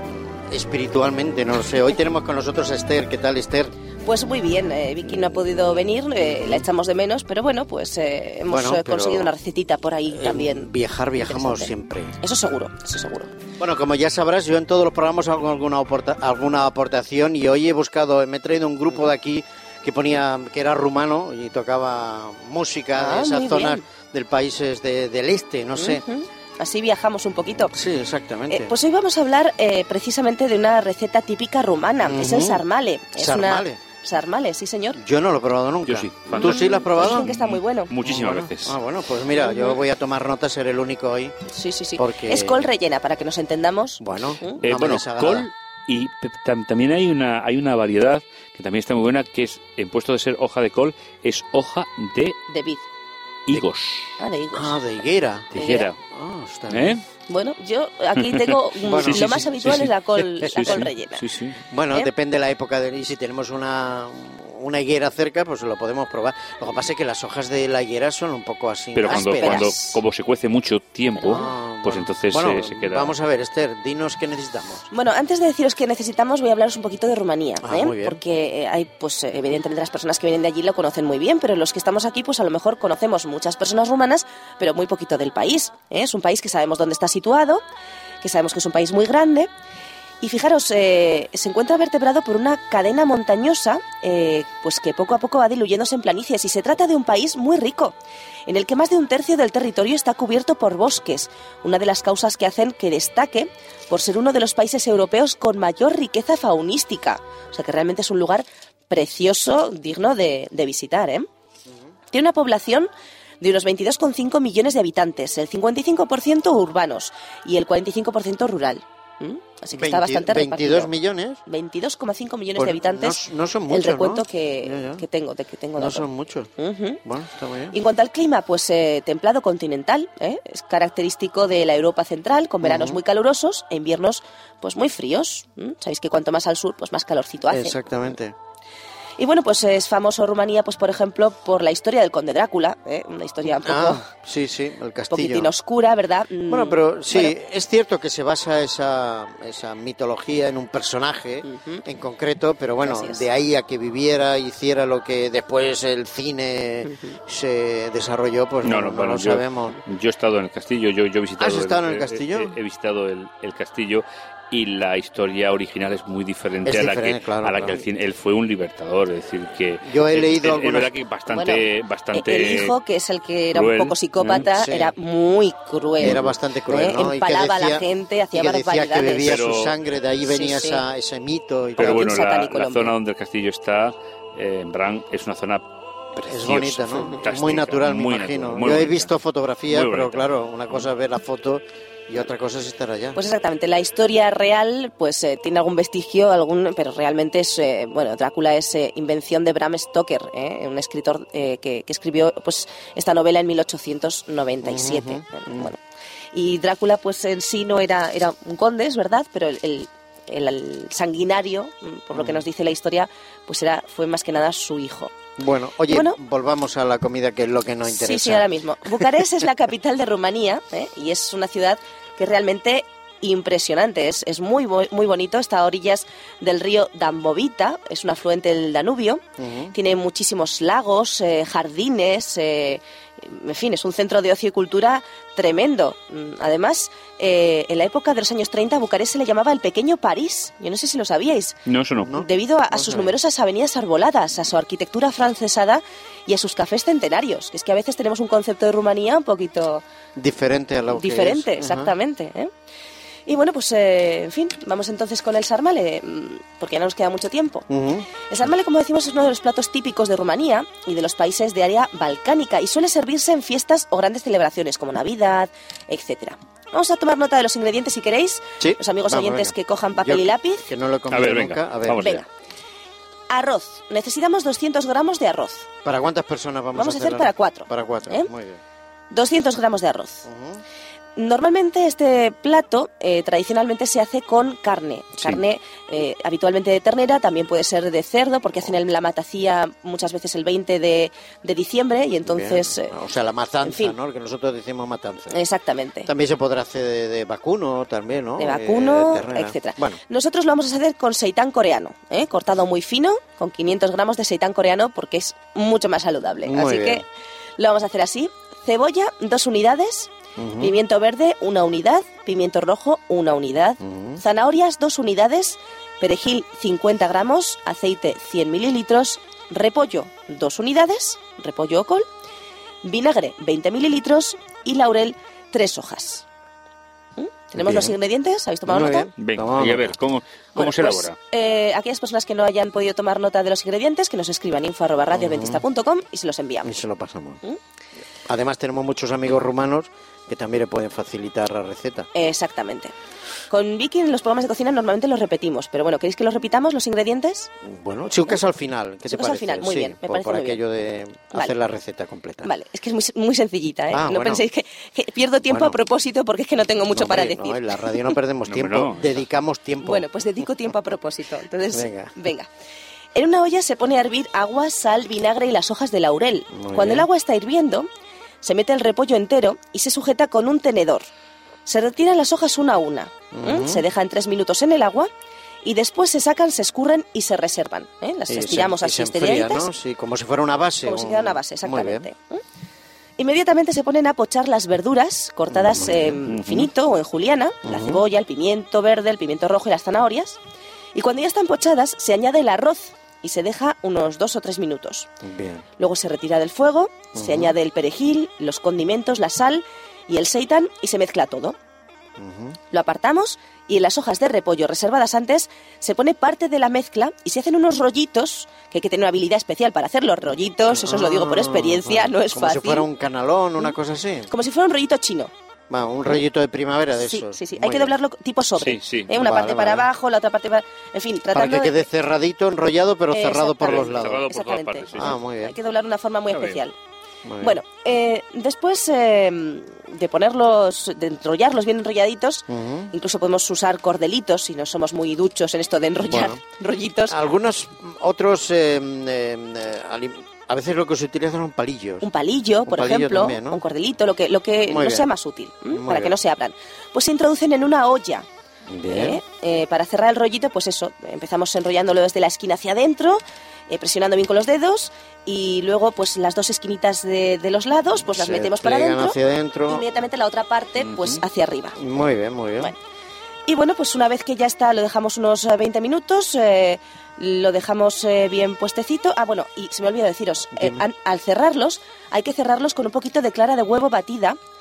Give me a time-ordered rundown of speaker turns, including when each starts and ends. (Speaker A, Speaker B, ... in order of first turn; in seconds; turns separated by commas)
Speaker A: 0.5-3.7, Speaker B: 4.0-13.3, Speaker A: 8.5-9.3, Speaker A: 10.1-12.2, Speaker A: 13.6-26.0, Speaker B: 23.0-23.8, Speaker B: 25.8-27.8, Speaker A: 27.7-28.8, Speaker B: 28.5-35.0, Speaker A: 32.0-32.6, Speaker A: 33.2-33.8, Speaker A: 35.0-37.4, Speaker C: 35.9-38.8, Speaker B: 36.4-37.9, Speaker A: 38.0-41.3, Speaker B: 39.4-39.8, Speaker B: 41.5-44.6, Speaker A: 42.0-42.7, Speaker A: 44.0-45.5, Speaker C: 44.6-52.4, Speaker B: 52.5-52.9, Speaker C: 53.5-54.2, Speaker B: 54.2-54.8, Speaker A: 54.5-57.0, Speaker C: 55.5-56.0, Speaker B: 55.5-55.9, Speaker C: 56.7-57.0, Speaker B: 57.3-61.2, Speaker C: 58.2-61.6, Speaker A: 58.8-59.9, Speaker A: 61.7-69.7, Speaker C: 69.0-73.1, Speaker B: 69.1-70.0, Speaker B: 71.2-71.5, Speaker A: 71.3-74.9, Speaker B: 74.9-87.6, Speaker A: 77.6-78.2, Speaker B: 88.2-89.5, Speaker B: 90.2-98.0, Speaker B: 98.5-111.3, Speaker B: 112.1-120.9, Speaker A: 119.7-121.4, Speaker B: 121.5-127.0, Speaker A: 122.6-125.0, Speaker A: 125.8-126.5, Speaker A: 127.0-127.7, Speaker B: 127.7-137.8, Speaker A: 132.6-133.0, Speaker A: 137.5-138.3, Speaker B: 139.2-144.1, Speaker A: 143.6-145.5, Speaker B: 145.1-147.3, Speaker A: 146.5-159.8, Speaker B: 151.4-151.8, Speaker B: 152.8-153.3, Speaker C: 158.6-172.8, Speaker A: 161.4-162.6, Speaker A: 166.6-167.8, Speaker A: 169.8-170.9, Speaker B: 171.3-179.4, Speaker C: 173.5-174.5, Speaker A: 174.3-174.9, Speaker C: 176.0-176.4, Speaker A: 176.0-182.2, Speaker C: 179.2-179.8, Speaker B: 180.2-180.8, Speaker B: 181.8-182.9, Speaker C: 181.8-185.7, Speaker A: 186.2-193.2, Speaker C: 186.3-189.1, Speaker C: 189.7-190.9, Speaker B: 193.2-205.8, Speaker A: 204.6-205.7, Speaker B: 206.3-215.1, Speaker A: 212.2-212.4, Speaker A: 215.4-218.5, Speaker B: 215.9-216.2, Speaker B: 217.9-241.6, Speaker A: 229.4-229.7, Speaker C: 241.7-242.1, Speaker A: 242.0-243.1, Speaker B: 242.1-249.8, Speaker A: 250.2-251.9, Speaker B: 250.9-252.5, Speaker B: 253.3-257.7, Speaker A: 257.7-258.1, Speaker B: 258.2-270.6, Speaker A: 268.6-272.2, Speaker C: 271.1-272.2, Speaker B: 272.0-272.3, Speaker B: 273.3-275.7, Speaker A: 275.8-278.6, Speaker B: 276.8-278.3, Speaker B: 279.1-280.3, Speaker A: 280.3-280.6, Speaker B: 281.2-292.9, Speaker A: 292.2-295.4, Speaker B: 293.6-294.0, Speaker B: 295.3-296.1, Speaker A: 296.1-300.0, Speaker B: 298.4-307.1, Speaker A: 306.4-307.0, Speaker B: 307.6-322.1, Speaker A: 310.4-310.8, Speaker A: 313.8-314.2, Speaker B: 322.8-326.3, Speaker B: 327.2-329.1, Speaker A: 327.6-327.9, Speaker A: 328.7-330.0, Speaker C: 329.2-331.2, Speaker B: 330.6-336.8, Speaker A: 335.1-335.6, Speaker A: 336.6-337.4, Speaker A: 338.2-342.1, Speaker B: 342.1-342.9, Speaker B: 343.5-347.5, Speaker A: 347.6-352.5, Speaker B: 349.1-350.6, Speaker B: 352.4-358.1, Speaker A: 353.9-354.4, Speaker A: 355.5-355.8, Speaker A: 356.9-360.3, Speaker C: 358.5-359.2, Speaker B: 359.8-362.5, Speaker A: 361.7-362.1, Speaker B: 363.1-367.9, Speaker A: 366.5-367.1, Speaker B: 368.4-371.1, Speaker B: 371.7-375.1, Speaker A: 373.3-373.8, Speaker B: 375.6-379.7, Speaker A: 378.3-382.1, Speaker B: 380.9-382.4, Speaker B: 383.2-390.4, Speaker A: 385.5-386.2, Speaker C: 386.3-386.7, Speaker A: 387.6-388.0, Speaker B: 390.9-395.1, Speaker A: 395.2-395.6, Speaker B: 395.8-401.6, Speaker A: 397.1-397.6, Speaker A: 402.2-402.6, Speaker B: 402.7-412.9, Speaker A: 410.7-414.3, Speaker B: 414.3-415.3, Speaker A: 415.7-417.9, Speaker B: 417.0-421.9, Speaker C: 418.6-419.2, Speaker A: 419.1-419.9, Speaker A: 421.3-424.2, Speaker B: 423.1-426.8, Speaker C: 423.6-425.2, Speaker A: 424.9-425.6, Speaker C: 426.3-426.6, Speaker A: 427.2-427.6, Speaker B: 427.4-437.2, Speaker A: 432.5-432.9, Speaker A: 436.0-436.4, Speaker A: 437.1-442.1, Speaker B: 442.0-448.3, Speaker A: 442.7-443.6, Speaker A: 444.7-445.1, Speaker A: 445.7-446.2, Speaker A: 448.7-449.2, Speaker B: 448.9-461.8, Speaker A: 458.1-459.9, Speaker A: 460.8-461.2, Speaker A: 461.8-462.7, Speaker B: 463.5-474.4, Speaker A: 470.5-470.9